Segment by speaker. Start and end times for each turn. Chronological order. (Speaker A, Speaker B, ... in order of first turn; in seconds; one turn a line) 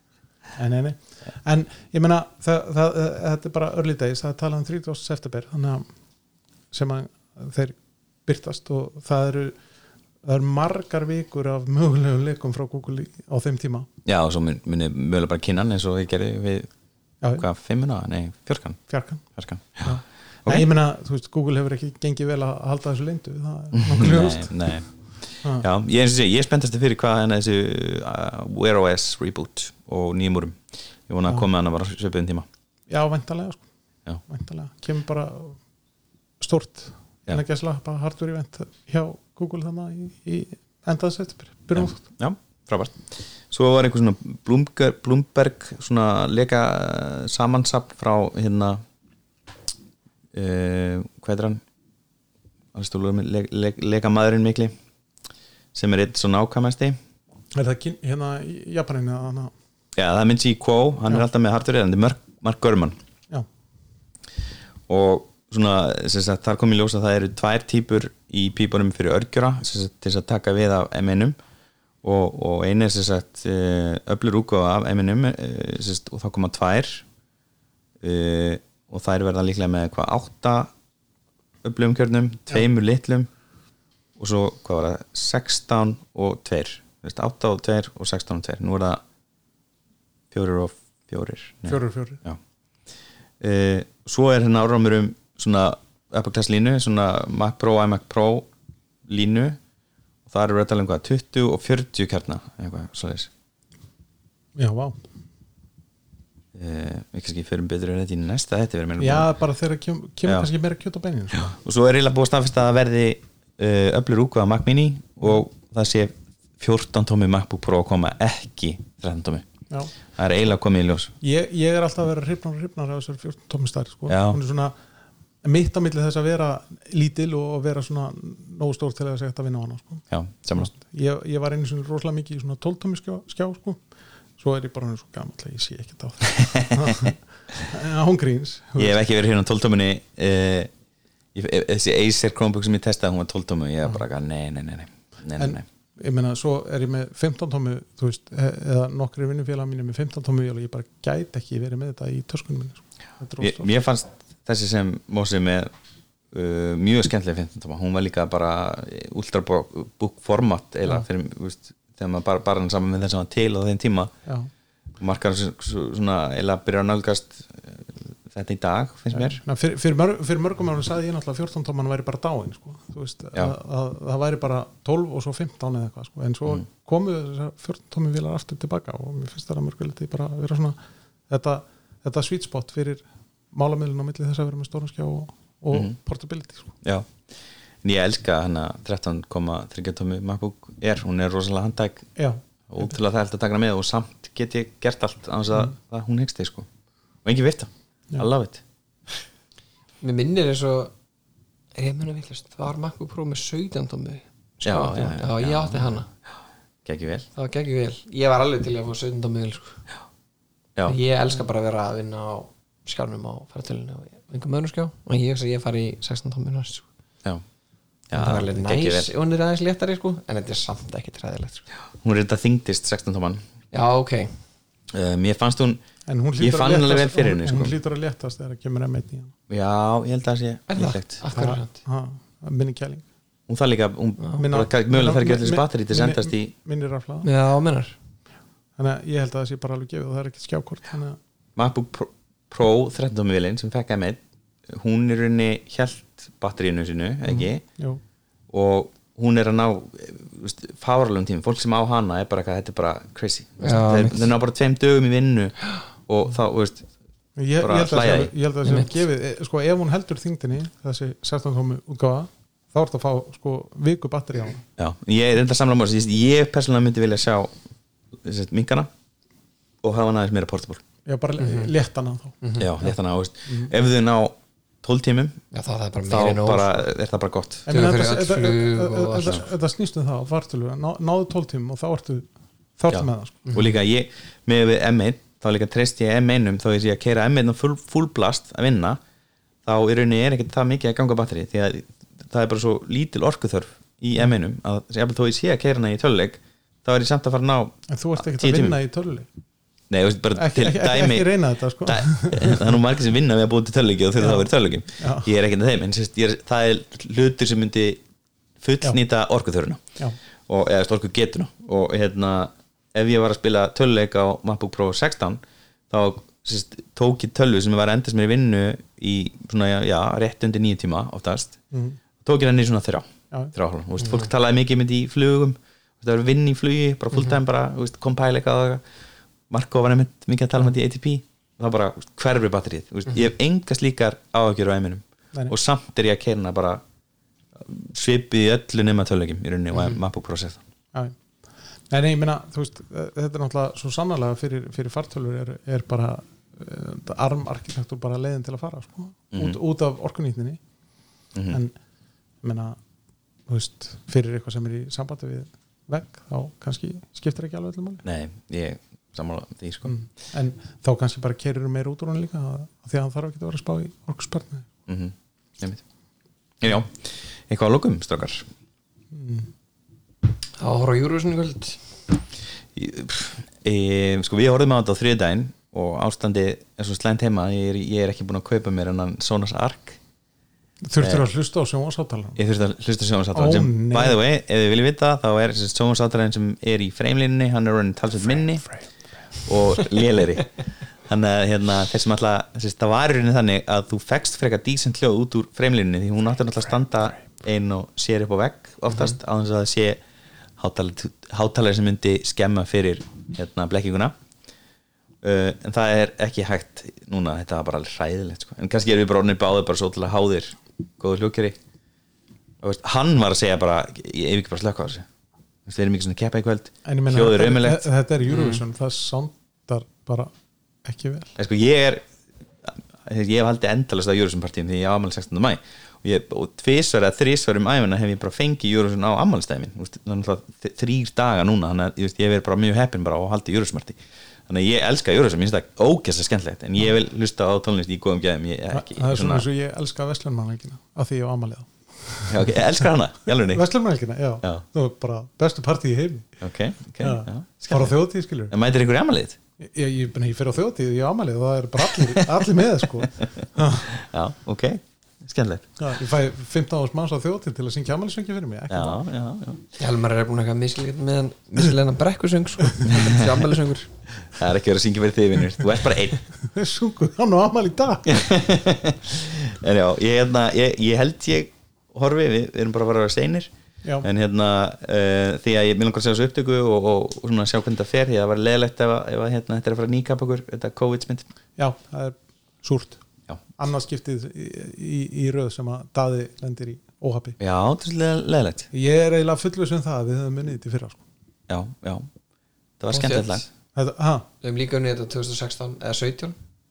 Speaker A: 0.6-5.9
Speaker A: 6.7-9.6
Speaker A: 10.2-13.9
Speaker B: 14.0-16.7
Speaker A: 17.2-17.5
Speaker B: 17.4-18.8
Speaker A: 18.9-19.2
Speaker B: 19.3-19.9
Speaker A: 19.8-24.5
Speaker B: 23.7-24.9
Speaker B: 25.6-32.5
Speaker A: 32.9-33.6
Speaker A: 34.2-35.6
Speaker A: 36.4-42.0
Speaker B: 41.7-48.8
Speaker B: 50.3-51.6
Speaker B: 52.7-54.7
Speaker B: 55.7-57.0
Speaker A: 57.5-59.5
Speaker B: 59.9-63.0
Speaker B: 64.9-71.3
Speaker B: 72.0-77.0
Speaker B: 78.0-80.7
Speaker B: 81.6-83.3
Speaker B: 84.2-89.0
Speaker B: 90.3-92.4
Speaker A: 91.7-92.2
Speaker B: 93.4-98.5
Speaker B: 99.1-99.6
Speaker B: 100.2-103.3
Speaker A: 104.6-104.9
Speaker B: 106.5-109.3
Speaker A: 109.0-111.5
Speaker B: 111.3-119.5
Speaker B: 120.1-121.1
Speaker A: 121.2-124.7
Speaker B: 124.1-124.4
Speaker A: 125.4-133.8
Speaker B: 130.1-130.7
Speaker A: 134.4-139.0
Speaker B: 136.3-137.1
Speaker B: 138.8-140.7
Speaker B: 141.3-145.6
Speaker A: 145.4-153.7
Speaker B: 153.4-155.7
Speaker B: 156.3-164.1
Speaker B: 165.0-169.4
Speaker A: 169.1-180.8
Speaker A: 181.3-186.7
Speaker B: 186.8-187.2
Speaker B: 187.8-192.1
Speaker B: 192.7-196.7
Speaker B: 197.2-198.6
Speaker C: 200.0-200.9
Speaker C: 201.7-206.1
Speaker B: 204.6-205.9
Speaker B: 206.8-207.3
Speaker C: 207.3-209.8
Speaker C: 210.8-216.8
Speaker B: 218.1-219.1
Speaker C: 218.1-221.7
Speaker B: 222.0-223.4
Speaker C: 223.7-224.4
Speaker B: 224.9-225.8
Speaker A: 226.1-229.3
Speaker B: 226.4-227.7
Speaker B: 229.5-231.1
Speaker C: 230.7-231.7
Speaker A: 231.3-233.0
Speaker B: 233.5-236.5
Speaker A: 234.3-237.3
Speaker C: 237.2-237.9
Speaker A: 238.8-241.2
Speaker B: 241.6-247.6
Speaker B: 248.5-256.9
Speaker C: 253.6-254.3
Speaker A: 257.4-264.6
Speaker B: 257.6-258.3
Speaker C: 258.6-258.9
Speaker B: 264.8-267.6
Speaker B: 268.2-268.9
Speaker B: 269.8-270.8
Speaker A: 271.1-272.9
Speaker C: 271.4-271.7
Speaker C: 272.4-272.7
Speaker B: 272.6-275.4
Speaker C: 275.5-276.9
Speaker B: 276.1-277.6
Speaker A: 277.6-283.4
Speaker C: 277.7-279.4
Speaker B: 282.9-289.0
Speaker B: 289.6-298.8
Speaker A: 297.9-299.3
Speaker B: 299.9-308.0
Speaker A: 300.3-302.8
Speaker A: 304.2-305.3
Speaker B: 308.6-309.8
Speaker B: 310.5-321.6
Speaker A: 321.7-322.0
Speaker B: 322.2-328.8
Speaker B: 329.5-336.8
Speaker B: 337.6-340.6
Speaker A: 341.9-350.6
Speaker B: 351.3-351.6
Speaker A: 351.5-351.7
Speaker A: 352.4-352.8
Speaker A: 353.5-358.0
Speaker B: 358.0-359.9
Speaker A: 359.8-364.7
Speaker B: 364.9-365.8
Speaker B: 366.6-368.4
Speaker A: 369.1-369.5
Speaker C: 370.6-371.8
Speaker B: 372.7-380.0
Speaker A: 380.8-382.4
Speaker B: 381.0-381.2
Speaker B: 382.4-388.7
Speaker A: 383.3-384.2
Speaker B: 389.4-390.5
Speaker B: 391.1-400.0
Speaker B: 400.6-404.1
Speaker B: 405.2-411.6
Speaker B: 412.6-415.1
Speaker B: 415.6-417.9
Speaker A: 416.8-420.3
Speaker C: 418.3-418.6
Speaker A: 420.8-421.3
Speaker B: 421.4-422.0
Speaker B: 422.6-439.5
Speaker A: 438.7-442.6
Speaker B: 442.3-443.6
Speaker A: 443.4-446.4
Speaker B: 446.4-447.9
Speaker A: 447.0-448.5
Speaker B: 448.5-449.4
Speaker A: 449.6-453.9
Speaker B: 453.7-455.6
Speaker A: 455.8-459.0
Speaker B: 458.7-459.6
Speaker C: 459.8-463.9
Speaker B: 462.8-463.4
Speaker B: 464.3-466.2
Speaker A: 466.4-468.2
Speaker B: 468.1-473.5
Speaker B: 474.0-481.2
Speaker A: 481.6-483.0
Speaker A: 483.6-487.4
Speaker B: 487.4-488.7
Speaker A: 488.7-491.0
Speaker B: 491.5-492.1
Speaker B: 492.8-493.5
Speaker C: 492.9-493.4
Speaker A: 493.7-494.3
Speaker C: 494.4-496.3